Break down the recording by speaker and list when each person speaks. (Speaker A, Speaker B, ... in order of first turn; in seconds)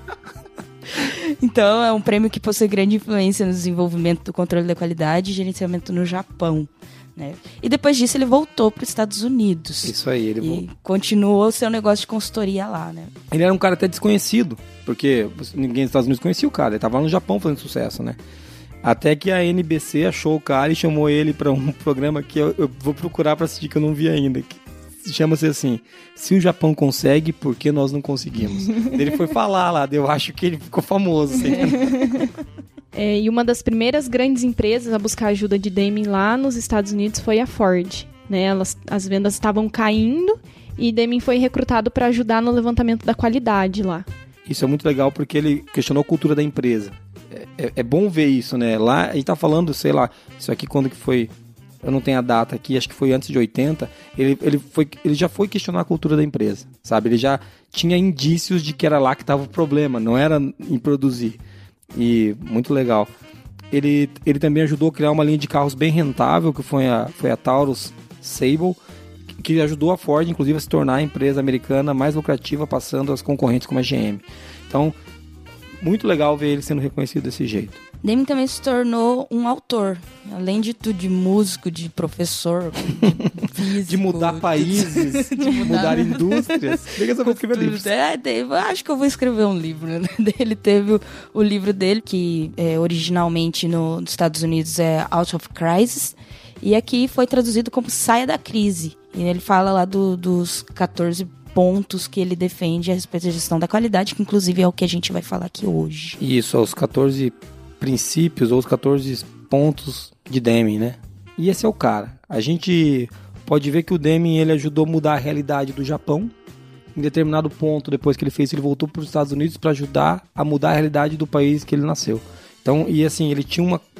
Speaker A: 0.9-13.1, 78.0-106.2
Speaker B: 9.8-10.6, 13.3-18.2, 18.8-32.2, 44.5-51.3, 51.8-61.4, 61.9-63.1, 63.7-68.8, 69.4-75.0, 75.8-77.8, 83.8-87.9, 106.2-116.3, 117.0-123.8
Speaker C: 31.5-32.3, 32.9-44.1